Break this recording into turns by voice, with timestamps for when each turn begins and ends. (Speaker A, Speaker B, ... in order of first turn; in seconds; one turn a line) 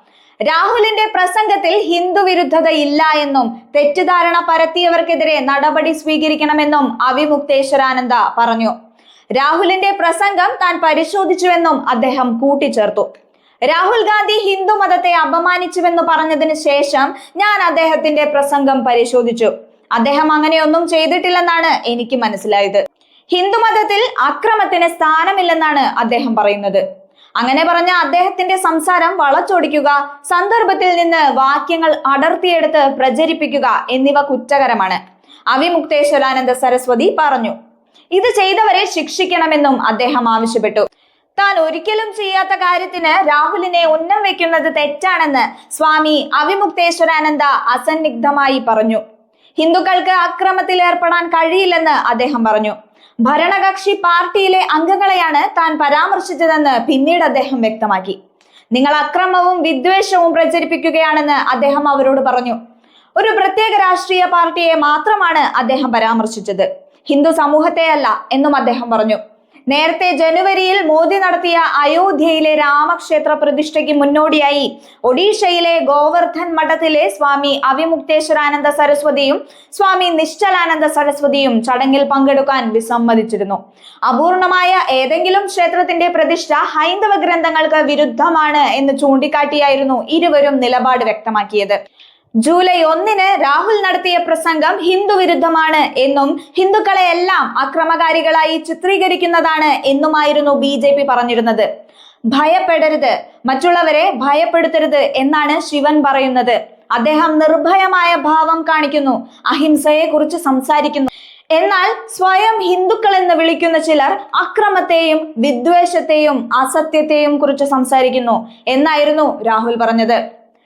Speaker A: 0.5-8.7
Speaker A: 9.3-13.1
Speaker A: 13.7-26.8
Speaker A: 27.4-35.0
Speaker A: 35.5-37.5
Speaker A: 38.1-40.8
Speaker A: 41.4-49.0
Speaker A: 49.6-58.2
Speaker A: 58.7-62.6
Speaker A: 63.2-91.8
Speaker A: 92.4-101.7
Speaker A: 102.3-120.2